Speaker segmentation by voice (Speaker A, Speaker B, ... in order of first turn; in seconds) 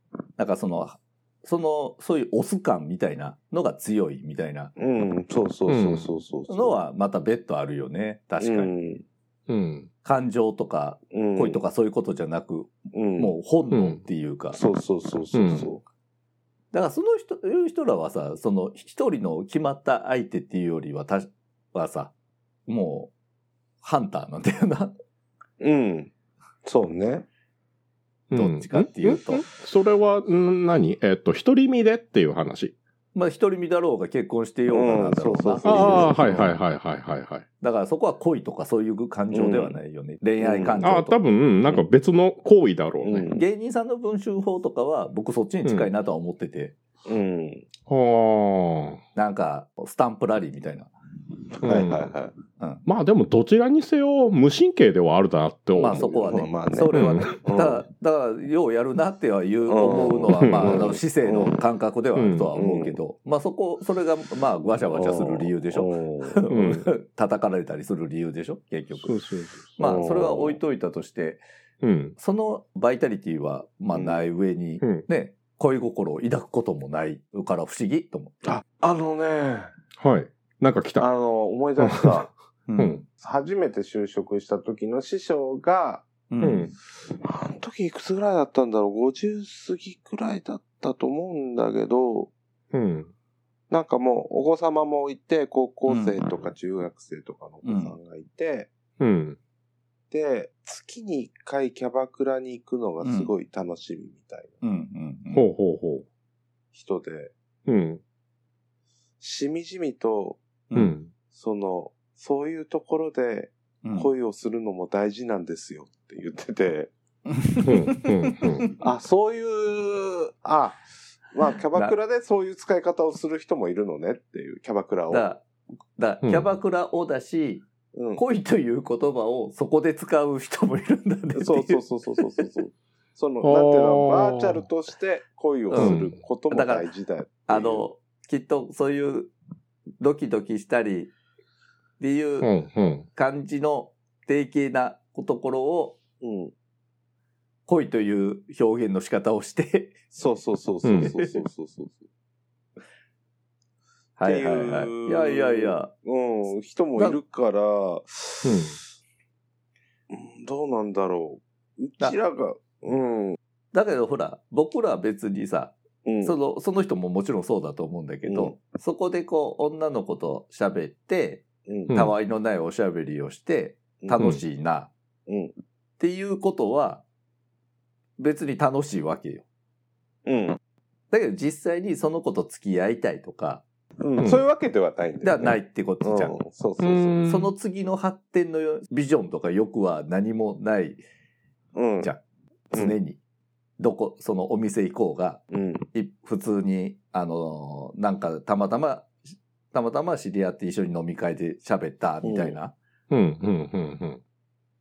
Speaker A: 0.4-4.7, 6.5-8.7, 10.0-14.6, 16.7-22.1, 22.7-23.1, 23.8-24.9, 28.3-29.4, 33.1-36.5, 37.6-41.2, 43.3-46.7, 49.1-50.9, 52.6-52.8, 55.8-69.2, 69.8-71.4, 72.2-78.4, 82.7-83.0, 86.3-86.7, 95.9-96.2, 97.6-97.9, 103.0-103.3, 104.6-105.4, 110.7-111.0, 113.8-114.1, 117.3-118.7, 125.1-125.4, 126.0-127.6, 128.1-131.8, 135.7-136.9, 137.5-139.3, 140.0-141.1, 142.0-142.5, 143.2-146.0, 147.7-150.0, 151.0-151.4, 154.2-155.9, 163.7-174.9, 176.0-177.0, 178.2-179.4, 181.1-183.6, 185.2-186.4, 187.2-191.0, 192.7-193.2, 193.8-195.4, 195.9-199.1, 199.7-202.7
Speaker B: 4.8-6.8, 8.4-9.0, 11.1-11.6, 12.9-13.3, 14.5-15.8, 25.6-26.1, 26.6-27.3, 34.7-36.5, 39.3-39.8, 40.4-40.8, 43.0-43.4, 47.0-47.7, 51.6-52.3, 56.2-57.8, 59.7-61.6, 62.5-63.0, 64.9-66.4, 69.8-70.6, 73.9-74.2, 78.4-79.7, 81.0-82.3, 83.2-86.1, 87.1-92.3, 93.7-98.7, 100.1-104.5, 106.7-107.3, 109.2-110.4, 111.3-116.9, 118.8-125.3, 127.9-128.2, 131.3-137.8, 146.2-146.5, 150.1-152.0, 154.2-158.7, 160.1-163.4, 166.0-166.3, 168.3-168.5, 171.7-171.9, 175.3-175.5, 180.2-180.6, 184.0-187.2, 191.7-192.1, 195.5-195.8, 202.2-202.6
Speaker C: 5.7-6.1, 9.5-9.9, 13.7-14.0, 15.3-15.7, 28.3-32.7, 35.6-37.4, 40.8-43.3, 45.6-45.9, 47.9-49.0, 51.6-52.1, 52.9-56.3, 56.9-57.3, 60.3-60.9, 62.1-62.5, 66.5-66.9, 69.0-69.8, 71.8-72.2, 80.0-81.1, 81.8-83.0, 86.4-86.7, 92.7-93.1, 99.0-99.4, 105.3-106.0, 107.7-108.0, 110.7-111.1, 117.6-118.7, 133.4-134.6, 135.7-136.2, 142.4-143.1, 150.8-151.1, 158.4-158.8, 171.9-172.1, 186.8-187.5, 203.1-204.2